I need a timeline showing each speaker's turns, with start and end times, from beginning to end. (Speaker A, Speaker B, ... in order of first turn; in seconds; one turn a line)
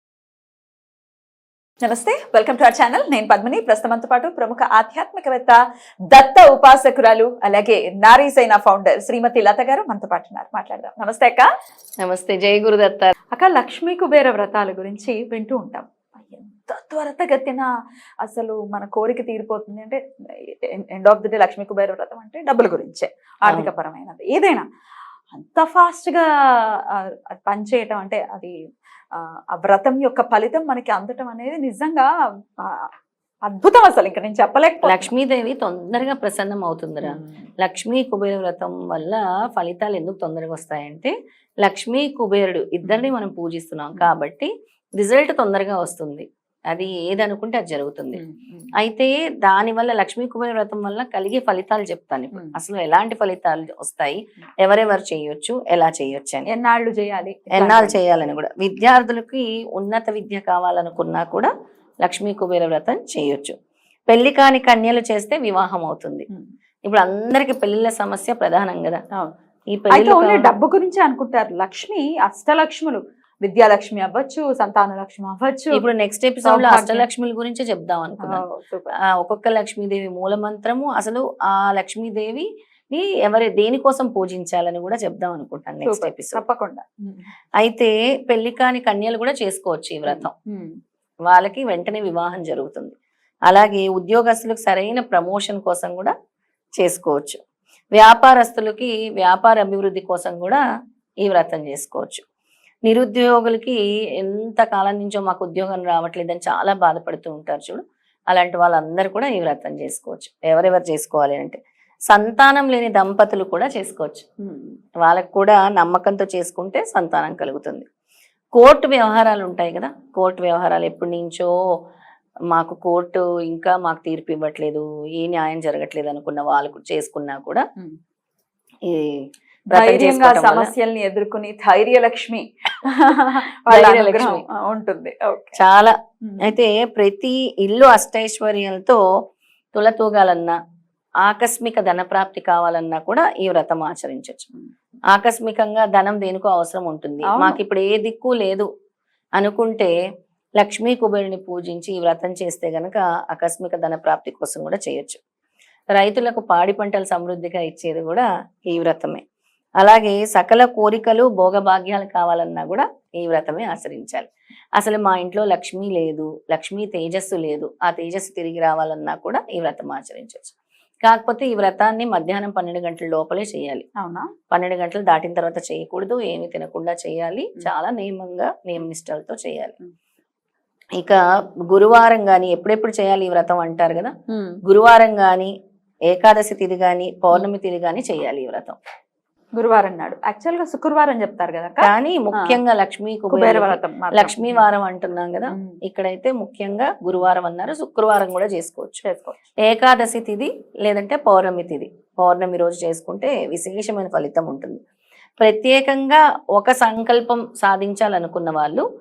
Speaker A: 1.8-5.6
Speaker A: 6.1-11.5
Speaker B: 12.0-13.1
Speaker A: 13.3-17.7
Speaker A: 18.2-24.6
Speaker A: 25.3-26.2
Speaker A: 26.9-28.5
Speaker A: 29.1-32.9
Speaker A: 33.5-35.1
Speaker B: 34.8-48.2
Speaker A: 37.0-37.4
Speaker A: 48.1-48.7
Speaker B: 48.8-56.5
Speaker A: 56.5-58.0
Speaker B: 57.5-61.5
Speaker B: 62.0-63.5
Speaker B: 64.1-66.3
Speaker B: 66.8-69.0
Speaker B: 69.7-70.5
Speaker A: 69.9-75.8
Speaker B: 75.7-78.4
Speaker A: 76.4-77.0
Speaker A: 78.2-78.9
Speaker B: 79.0-86.4
Speaker A: 85.8-87.3
Speaker B: 87.6-90.3
Speaker A: 90.0-90.7
Speaker B: 91.3-92.9
Speaker B: 93.5-96.1
Speaker B: 96.8-97.4
Speaker B: 97.9-100.6
Speaker B: 101.2-102.2
Speaker B: 102.9-111.6
Speaker B: 112.1-114.2
Speaker A: 114.4-114.8
Speaker B: 115.0-117.8
Speaker B: 118.5-121.5
Speaker B: 122.5-127.6
Speaker B: 128.8-130.7
Speaker A: 129.7-135.6
Speaker B: 133.7-134.4
Speaker B: 135.6-139.0
Speaker A: 136.2-136.5
Speaker B: 139.7-140.6
Speaker B: 141.2-144.5
Speaker B: 145.1-148.7
Speaker A: 147.2-147.6
Speaker B: 149.4-149.9
Speaker B: 150.6-155.2
Speaker B: 155.9-159.2
Speaker B: 159.8-173.8
Speaker A: 174.0-174.3
Speaker B: 174.5-179.7
Speaker B: 181.0-184.1
Speaker A: 184.3-184.6
Speaker B: 184.6-185.5
Speaker B: 186.1-188.8
Speaker A: 189.6-192.6
Speaker B: 191.8-199.0
Speaker A: 193.3-194.6
Speaker A: 195.5-195.8
Speaker A: 199.0-199.4
Speaker B: 199.6-204.8
Speaker B: 205.4-208.8